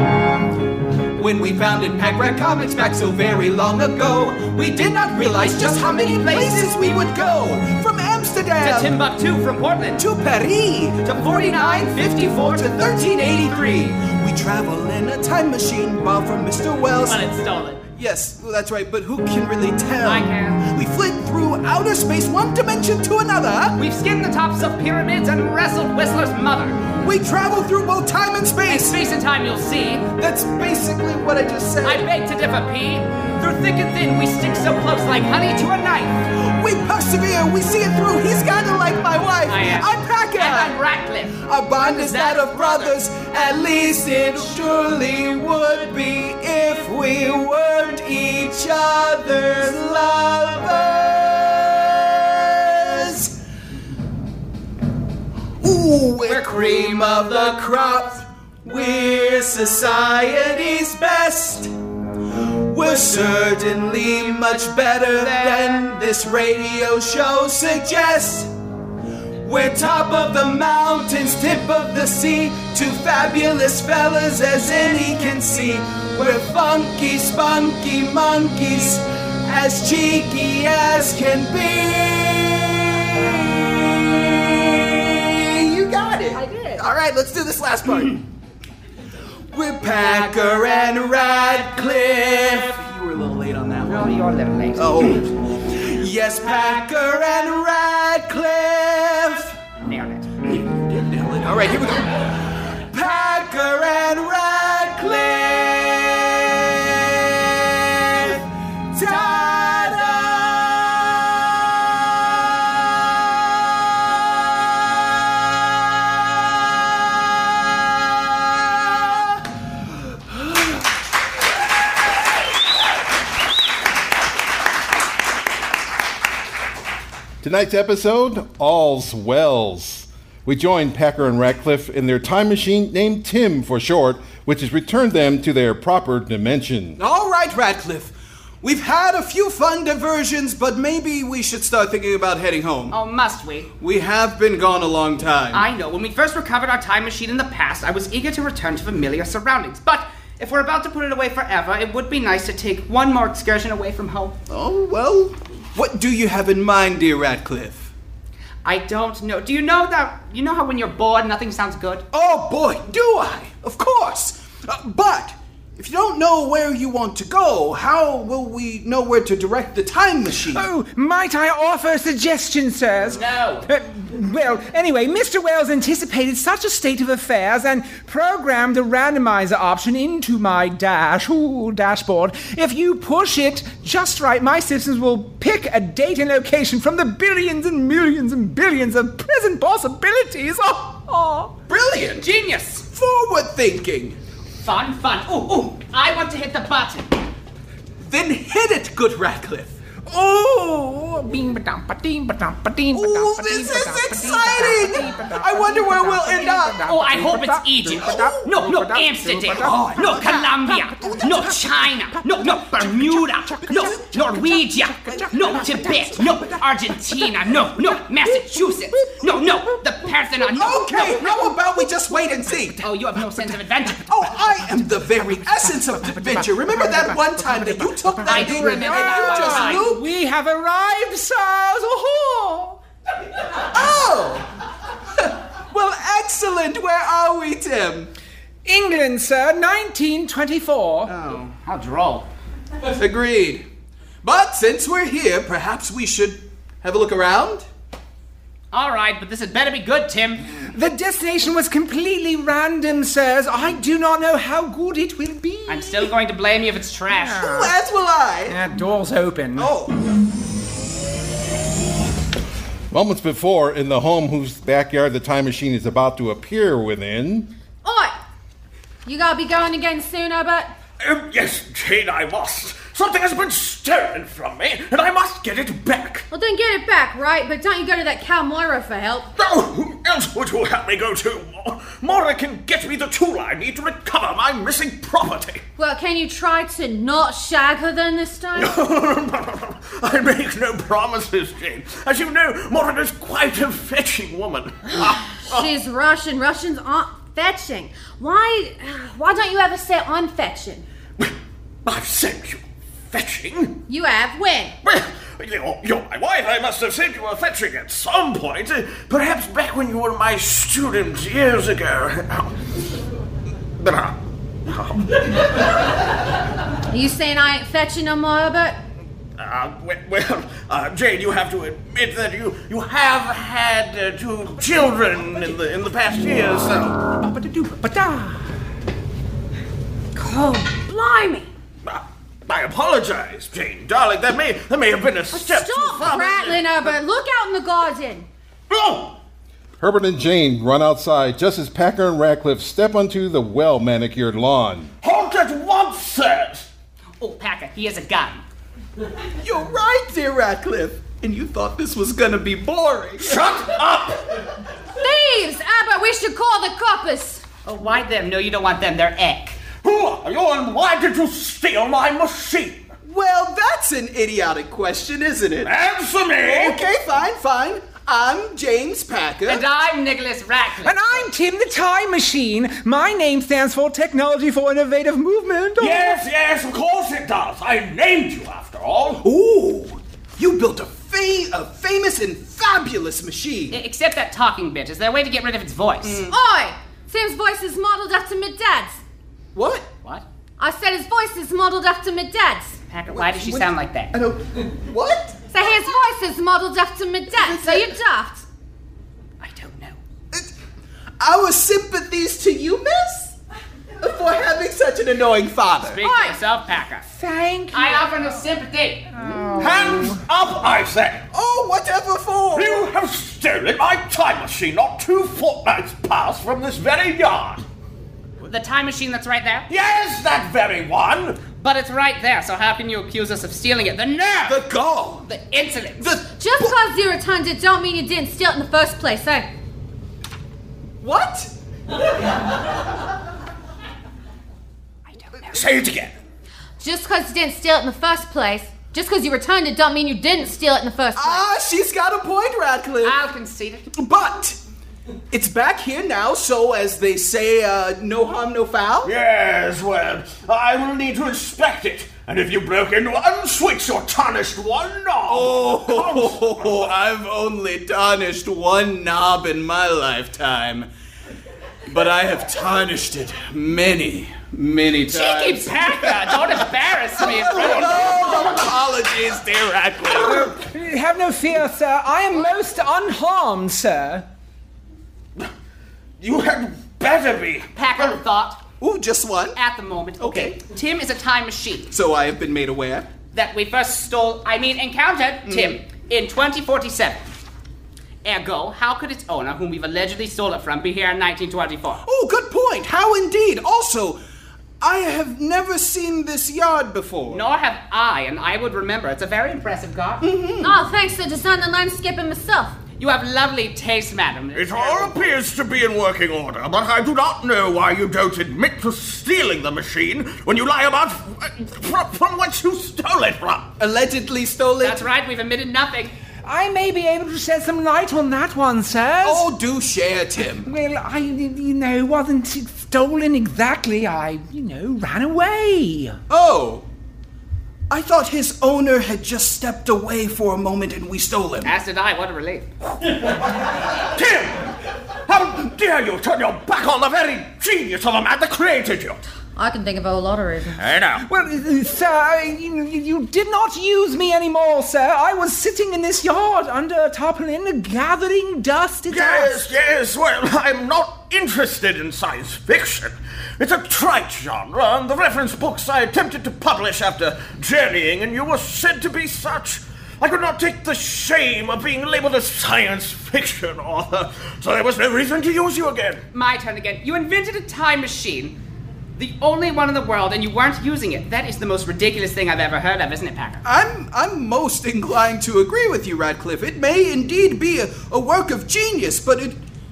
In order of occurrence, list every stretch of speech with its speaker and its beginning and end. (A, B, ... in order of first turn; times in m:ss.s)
0:01.2-0:09.0 A
0:05.1-0:07.4 B
0:08.6-0:10.1 B
0:10.0-0:17.2 A
0:11.0-0:13.8 B
0:17.0-0:17.8 B
0:17.9-0:23.8 A
0:20.0-0:20.6 B
0:23.8-0:26.8 B
0:27.0-0:29.0 A
0:28.7-0:30.1 B
0:30.1-0:32.1 A
0:31.8-0:36.2 B
0:36.3-0:53.4 A
0:39.5-0:43.0 B
0:44.1-0:44.6 B
0:55.6-1:01.7 A
0:56.2-0:57.6 B
1:02.7-1:08.5 A
1:09.4-1:28.2 A
1:26.3-1:26.8 C
1:29.5-1:34.1 A
1:29.9-1:30.9 B
1:33.8-1:35.1 B
1:34.8-1:39.6 A
1:39.8-1:40.3 B
1:40.4-1:52.0 A
2:07.4-2:17.0 D
2:17.0-2:23.0 A
2:22.9-2:23.7 B
2:23.8-2:25.7 A
2:25.5-2:34.4 B
2:34.5-2:37.9 A
2:38.6-2:42.0 B
2:42.1-2:50.7 A
2:50.5-3:11.5 E
2:53.1-2:53.7 B
3:11.7-3:12.3 A
3:12.2-3:12.8 B
3:12.9-3:14.2 A
3:14.6-3:17.3 B
3:18.0-3:19.8 A
3:20.1-3:32.4 E
3:22.9-3:26.8 A
3:26.8-3:41.3 B
3:27.8-3:28.5 A
3:29.5-3:30.3 A
3:33.4-3:33.8 E
3:33.8-3:34.0 A
3:35.1-3:36.3 A
3:40.5-3:42.9 A
3:42.8-3:44.1 B
3:43.9-3:50.1 A
3:47.5-3:52.8 E
3:48.3-3:49.9 B
3:53.7-3:54.5 A
3:55.2-3:58.1 A
3:58.6-4:01.1 E
4:01.1-4:01.5 A
4:01.4-4:02.3 B
4:02.9-4:03.6 A
4:04.2-4:07.7 A
4:08.7-4:10.5 B
4:10.6-4:16.1 E
4:15.7-4:17.4 B
4:17.1-4:17.8 E
4:17.4-4:18.6 A
4:18.5-4:19.7 E
4:19.6-4:20.0 A
4:22.9-4:27.5 D
4:27.8-4:28.1 C
4:29.0-4:30.7 C
4:31.0-4:36.3 F
4:36.3-4:39.3 C
4:39.4-4:45.6 F
4:45.8-4:48.8 C
4:48.6-4:55.7 F
4:55.4-5:00.8 C
5:01.8-5:03.8 F
5:03.9-5:04.8 C
5:04.8-5:12.5 F
5:13.8-5:15.2 F
5:16.9-5:18.8 C
5:19.4-5:27.0 F
5:27.2-5:28.4 E
5:30.2-5:31.5 C
5:31.8-5:37.0 F
5:35.3-5:38.3 C
5:38.7-5:39.2 F
5:39.8-5:44.9 D
5:45.0-5:46.7 F
5:47.2-5:48.4 B
5:49.4-5:53.5 A
5:53.2-5:54.3 F
5:55.0-5:57.4 C
5:57.6-5:59.6 B
5:59.7-6:02.9 F
6:03.0-6:05.8 A
6:05.6-6:06.9 F
6:06.4-6:09.6 A
6:09.4-6:11.0 B
6:10.8-6:16.2 E
6:15.8-6:19.2 F
6:19.2-6:23.8 A
6:23.7-6:26.2 B
6:26.0-6:26.3 A
6:26.3-6:29.0 C
6:29.5-6:29.9 A
6:30.6-6:32.7 C
6:32.9-6:34.1 B
6:33.1-6:35.4 A
6:35.5-6:38.4 C
6:37.3-6:37.9 A
6:39.4-6:40.0 B
6:41.2-6:43.4 A
6:44.0-6:46.0 A
6:45.8-6:47.1 B
6:46.0-6:46.4 C
6:47.1-6:48.1 E
6:47.7-6:49.2 B
6:49.1-6:50.2 E
6:49.4-6:49.7 A
6:49.6-6:51.2 F
6:51.3-6:52.9 A
6:52.5-6:57.6 F
6:58.4-6:59.7 B
6:59.7-7:01.5 F
7:01.5-7:04.6 B
7:04.4-7:05.3 A
7:05.2-7:06.2 B
7:06.0-7:06.7 A
7:06.4-7:09.5 C
7:11.0-7:11.5 A
7:15.1-7:15.7 B
7:15.5-7:16.2 F
7:16.8-7:21.5 C
7:21.2-7:23.2 A
7:23.0-7:23.9 B
7:23.9-7:24.6 A
7:25.3-7:29.1 A
7:29.0-7:36.4 F
7:35.2-7:40.9 A
7:41.9-7:46.6 A
7:45.1-7:48.3 B
7:47.2-7:50.4 A
7:50.3-7:54.3 E
7:56.2-7:58.2 F
7:57.7-7:58.6 B
7:58.8-7:59.6 A
7:59.6-8:01.9 B
8:00.2-8:00.6 A
8:01.9-8:03.1 A
8:03.3-8:07.3 B
8:05.5-8:05.8 A
8:08.2-8:12.0 B
8:12.0-8:14.2 A
8:14.8-8:17.4 A
8:17.3-8:20.3 B
8:20.2-8:20.8 A
8:20.6-8:22.8 C
8:23.0-8:25.3 B
8:24.5-8:33.7 F
8:33.8-8:35.0 A
8:34.8-8:36.1 B
8:36.4-8:39.5 E
8:39.2-8:40.7 A
8:40.6-8:46.2 E
8:46.3-8:46.9 A
8:47.9-8:51.8 A
8:51.6-8:52.7 B
8:53.4-8:54.7 F
8:55.3-8:59.2 F
8:59.6-9:00.9 C
9:00.8-9:01.2 F
9:01.2-9:09.7 E
9:09.1-9:26.2 F
9:26.3-9:28.6 B
9:29.2-9:33.6 B
9:33.6-9:39.6 A